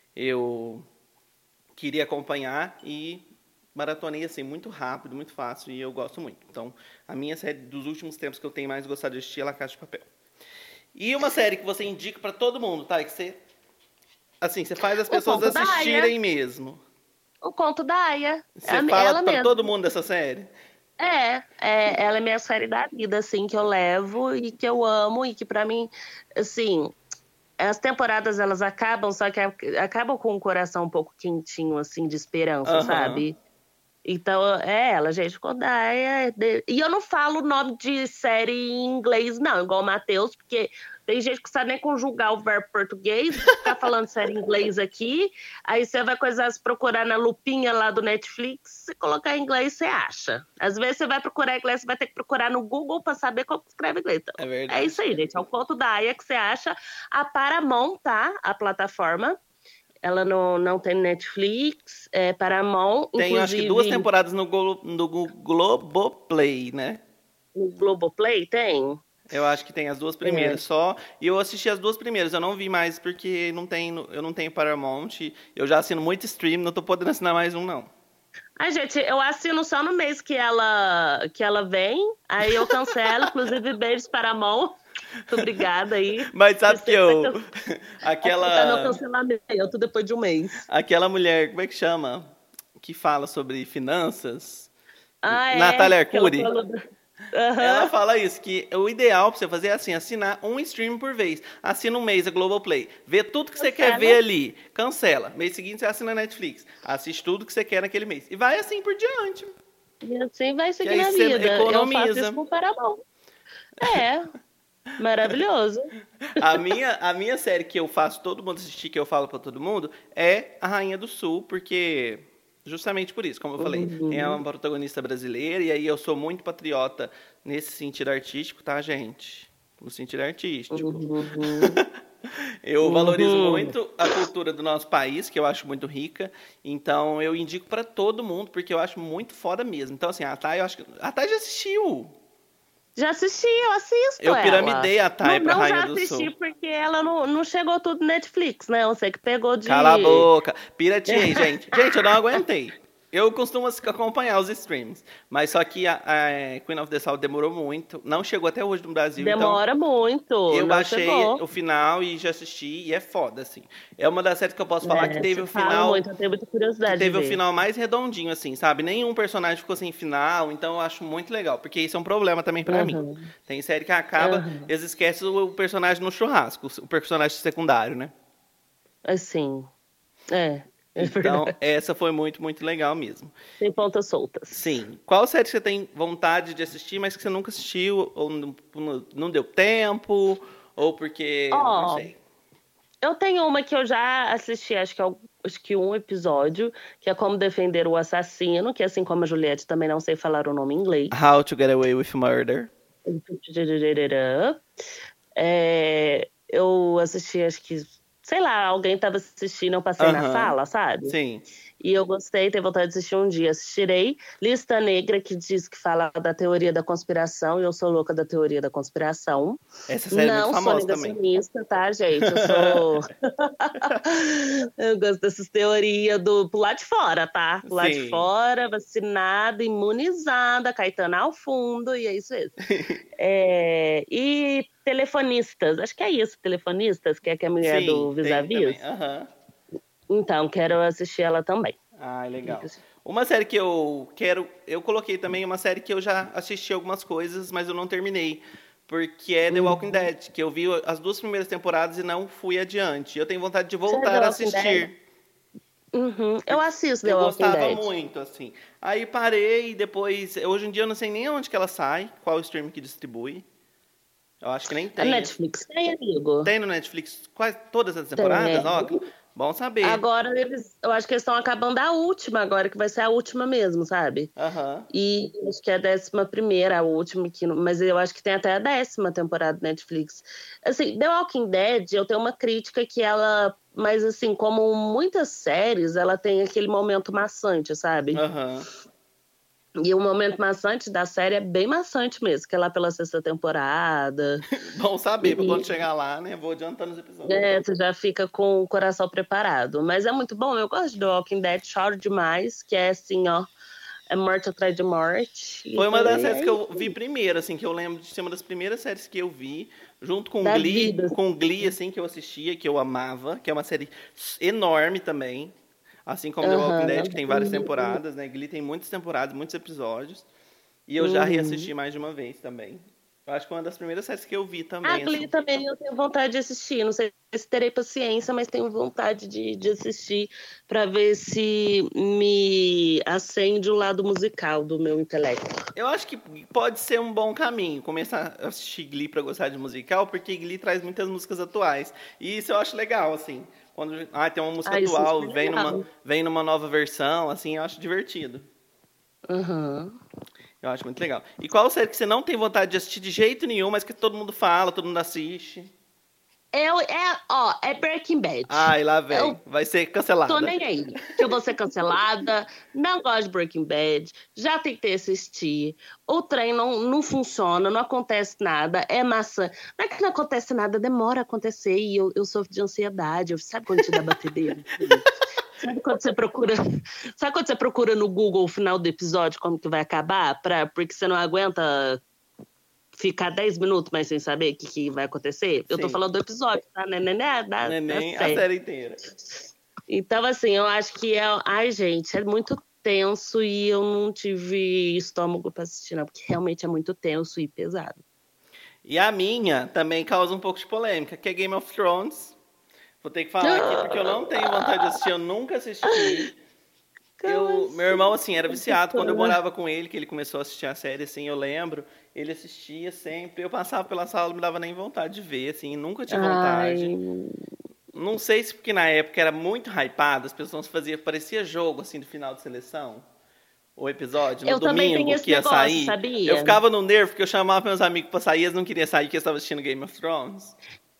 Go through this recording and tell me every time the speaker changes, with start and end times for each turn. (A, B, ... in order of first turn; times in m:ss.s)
0:00.2-0:00.8 A
0:01.8-0:10.1 A
0:10.9-0:13.4 A
0:14.4-0:16.8 A
0:15.1-0:16.1 B
0:17.4-0:19.6 B
0:18.6-0:20.5 A
0:21.0-0:26.9 B
0:27.6-0:33.3 B
0:32.6-0:33.2 A
0:34.0-0:59.4 B
0:54.4-0:55.1 A
1:00.0-1:04.1 B
1:03.2-1:07.0 A
1:07.5-1:09.0 B
1:09.3-1:17.9 A
1:10.2-1:10.6 B
1:18.6-1:24.8 B
1:22.5-1:23.0 A
1:25.3-1:27.4 B
1:26.3-1:29.0 A
1:28.2-1:30.6 B
1:30.7-1:34.7 A
1:35.2-1:36.8 B
1:35.3-1:36.5 A
1:37.3-1:37.9 B
1:37.6-1:49.5 A
1:43.6-1:44.2 B
1:50.0-1:53.0 B
1:50.8-1:52.4 A
1:53.8-1:54.3 B
1:55.0-1:55.9 B
1:56.4-2:22.1 A
2:03.6-2:04.4 B
2:10.7-2:11.8 B
2:12.8-2:13.7 B
2:23.0-2:30.3 B
2:24.2-2:26.3 A
2:29.6-2:39.6 A
2:31.1-2:31.4 B
2:39.2-2:41.4 B
2:40.5-2:46.0 A
2:44.8-2:47.4 B
2:46.8-2:58.1 A
2:52.7-2:53.3 B
2:54.2-2:54.7 B
2:59.0-2:59.7 B
3:00.3-3:01.5 B
3:01.0-3:03.3 A
3:03.6-3:04.6 B
3:04.5-3:12.2 A
3:11.5-3:12.1 B
3:13.0-3:21.1 B
3:21.1-3:22.7 A
3:23.1-3:24.6 B
3:25.4-3:31.1 B
3:30.0-3:30.6 A
3:31.1-3:31.4 A
3:31.8-3:52.5 B
3:39.9-3:41.2 A
3:42.3-3:42.8 A
3:47.6-3:48.3 A
3:52.7-3:53.0 A
3:53.2-3:58.8 B
3:57.6-3:59.3 A
4:00.1-4:01.8 B
4:02.0-4:14.9 A
4:02.4-4:02.8 B
4:09.5-4:10.0 B
4:13.9-4:14.9 B
4:15.9-4:17.9 B
4:16.5-4:23.4 A
4:24.4-4:25.3 A
4:25.0-4:26.5 B
4:26.4-4:30.0 A
4:28.2-4:29.0 B
4:29.8-4:34.3 B
4:34.4-4:34.9 A
4:34.9-4:48.2 B
4:48.1-4:48.6 A
4:49.8-4:54.4 B
4:54.5-4:57.4 A
4:55.2-4:55.7 B
4:57.2-5:03.5 B
5:04.1-5:06.6 B
5:05.8-5:15.5 A
5:10.4-5:11.2 B
5:16.1-5:20.2 A
5:16.4-5:18.0 B
5:20.9-5:25.3 A
5:21.0-5:21.7 B
5:24.8-5:35.5 B
5:35.8-5:48.4 A
5:44.6-5:45.8 B
5:49.3-5:50.0 B
5:50.6-5:55.7 A
5:56.5-5:59.4 B
5:58.5-6:00.5 A
6:00.3-6:15.0 B
6:15.6-6:16.6 B
6:17.2-6:22.0 B
6:23.0-6:28.4 B
6:25.7-6:26.0 A
6:27.6-6:29.0 A
6:29.9-6:38.0 B
6:38.8-6:42.3 A
6:43.0-6:46.3 A
6:43.4-6:45.0 B
6:45.8-6:46.2 B
6:47.2-6:49.4 B
6:47.2-6:56.9 A
6:56.1-6:57.4 B
6:57.9-7:03.0 A
7:03.8-7:10.5 A
7:04.4-7:06.6 B